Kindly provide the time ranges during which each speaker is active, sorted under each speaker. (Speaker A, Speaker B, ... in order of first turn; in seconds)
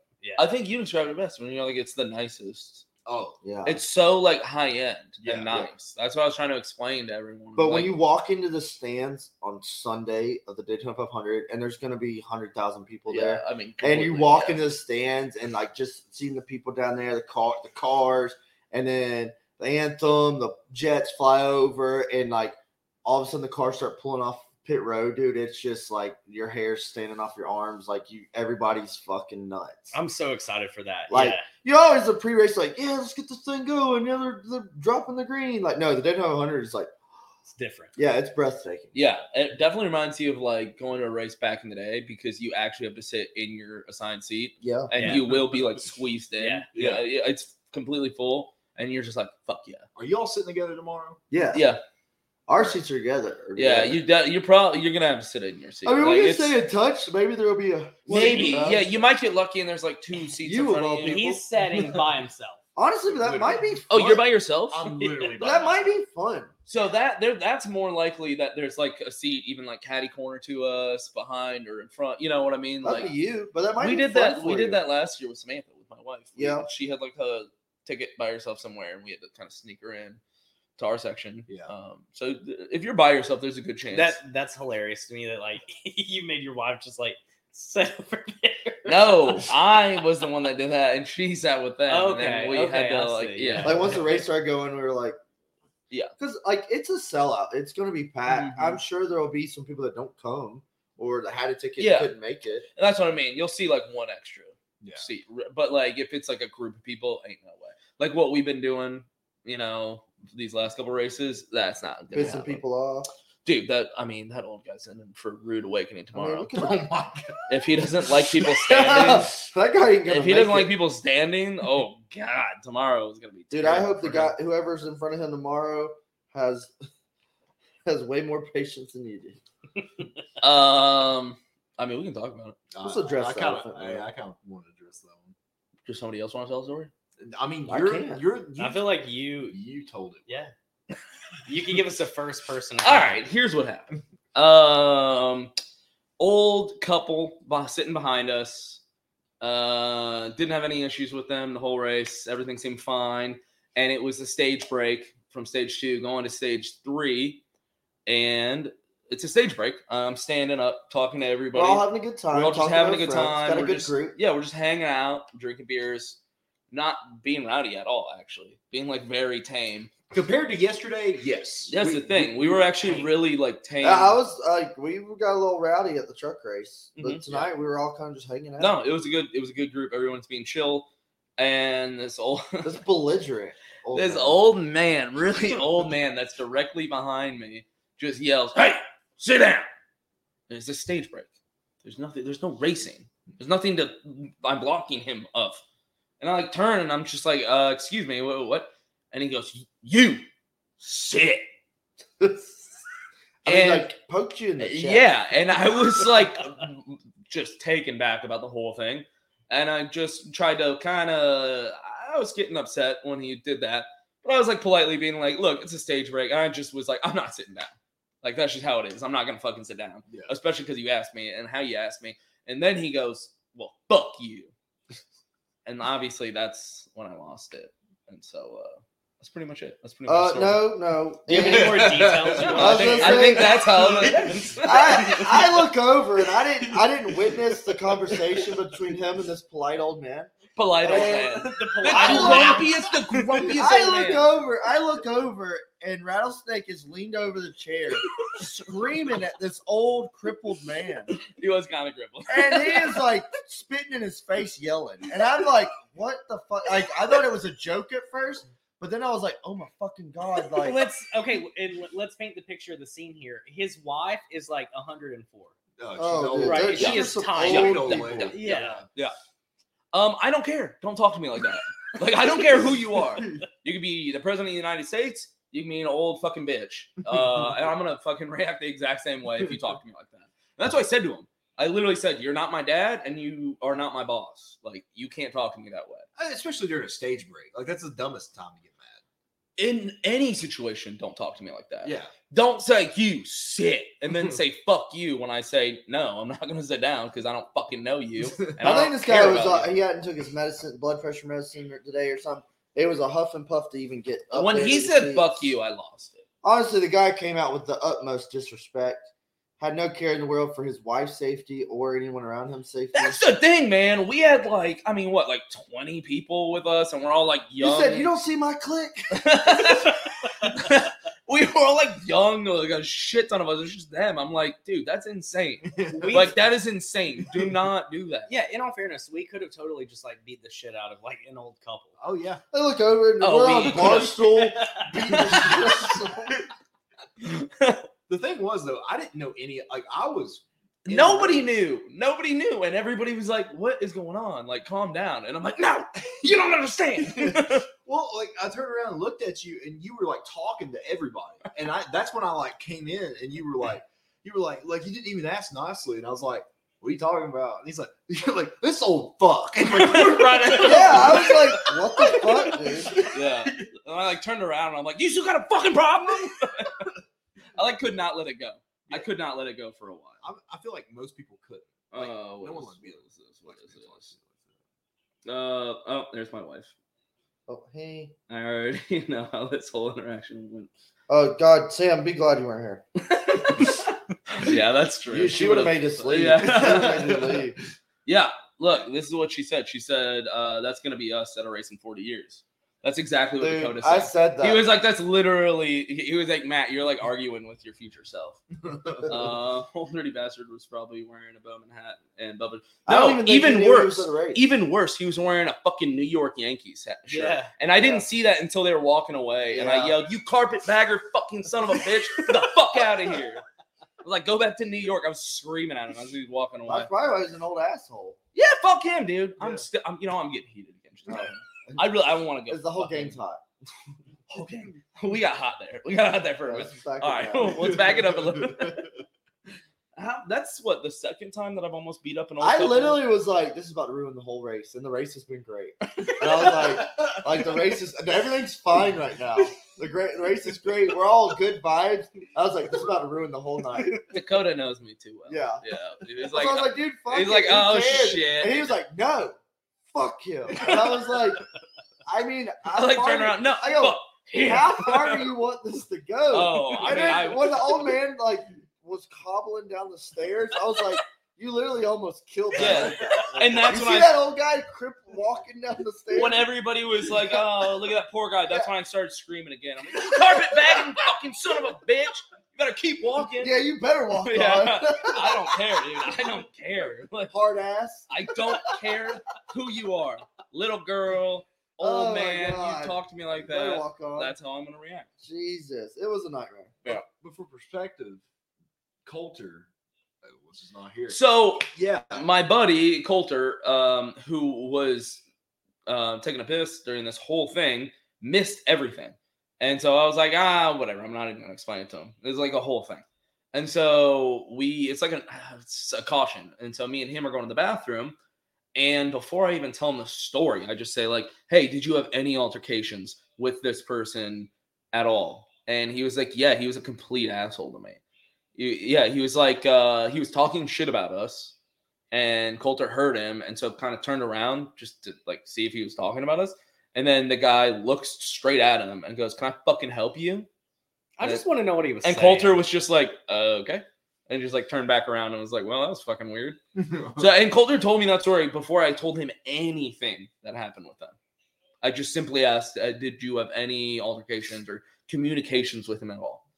Speaker A: 0.4-2.9, 3.6-7.9, 13.1-14.6, 38.9-49.9, 51.5-51.8, 53.6-56.5, 58.1-61.4, 63.9-64.9, 66.7-73.1, 73.8-80.2, 80.8-84.2, 88.9-94.0, 98.3-98.8, 101.8-102.2, 102.8-112.6, 113.5-116.7, 117.5-119.3, 120.1-124.3, 130.4-132.6, 135.9-136.9, 142.8-145.5, 146.2-148.8, 149.4-157.4, 158.1-166.2, 166.7-169.9, 171.7-174.2, 177.0-177.3, 178.6-180.9, 181.4-182.8, 183.9-189.7, 190.5-191.3, 191.8-195.6, 196.2-200.3, 200.8-201.4, 203.4-203.9, 204.6-224.5, 225.7-230.7, 232.4-235.4, 240.6-244.3, 251.2-253.1, 266.8-269.1, 269.9-286.1, 289.6-299.7, 304.3-306.2, 312.9-318.1, 319.1-328.3, 333.2-334.4, 335.1-335.8, 337.2-337.8, 340.9-347.7, 359.7-366.9, 367.6-370.2, 371.9-374.1, 375.3-376.7, 378.3-380.7, 383.0-387.4, 388.1-398.4, 399.0-413.4, 414.0-416.9, 418.4-423.2, 424.3-428.9, 430.0-433.0, 444.1-448.6, 450.7-451.0, 452.7-455.3, 456.3-457.8, 462.6-464.1, 466.1-473.6, 474.2-477.3, 478.1-485.1, 491.1-495.2, 495.9-508.2, 508.8-518.0, 518.6-521.5, 522.1-530.5, 532.0-536.6, 537.2-541.1, 541.8-546.4
Speaker B: 3.1-3.4, 5.2-5.7, 46.8-47.0, 50.0-51.2, 63.1-65.9, 104.8-105.1, 132.7-135.3, 137.2-139.0, 139.5-140.3, 170.1-172.7, 220.1-220.3, 231.4-232.9, 233.6-235.6, 236.7-238.5, 265.8-268.9, 277.1-277.5, 286.2-289.0, 291.8-292.1, 325.7-326.3, 332.0-332.4, 334.9-336.0, 338.1-341.5, 347.0-363.6, 370.2-374.6, 427.9-428.9, 486.9-488.2, 489.1-489.7, 490.2-491.2, 491.7-492.3, 536.8-537.3
Speaker C: 3.4-3.8, 7.6-30.0, 31.1-36.9, 38.0-38.9, 44.6-44.9, 51.3-51.7, 52.5-54.0, 55.9-59.1, 60.4-61.4, 62.8-63.9, 65.4-66.5, 72.8-74.8, 76.4-76.7, 93.6-95.2, 96.2-102.7, 112.1-113.1, 116.1-117.2, 118.6-120.7, 123.5-126.8, 127.8-129.4, 132.8-134.1, 137.7-138.2, 161.5-164.2, 173.8-178.8, 182.6-184.4, 202.2-202.7, 203.4-205.1, 230.1-233.9, 234.6-242.7, 243.5-251.2, 252.3-260.9, 266.0-268.3, 298.6-305.5, 306.4-309.1, 309.6-313.3, 317.6-319.2, 332.5-336.4, 360.6-363.1, 377.5-378.1, 381.1-382.8, 385.1-387.6, 393.4-394.7, 402.9-404.4, 407.8-408.1, 409.5-410.0, 416.7-418.2, 421.1-423.4, 426.4-427.8, 432.4-444.0, 445.3-445.6, 446.2-451.4, 452.1-466.5, 473.4-475.6, 477.3-478.1, 481.8-484.4, 485.2-486.8
Speaker D: 29.9-31.5, 37.5-38.0, 44.9-45.2, 46.4-46.7, 58.1-58.6, 61.0-62.6, 65.0-65.3, 83.9-89.5, 91.9-94.0, 138.6-139.6, 140.3-140.5, 141.5-143.1, 231.3-233.4, 240.8-242.7, 260.6-265.6, 266.4-267.8, 268.3-268.8, 325.9-326.4, 328.3-332.0, 407.1-407.5, 531.2-532.6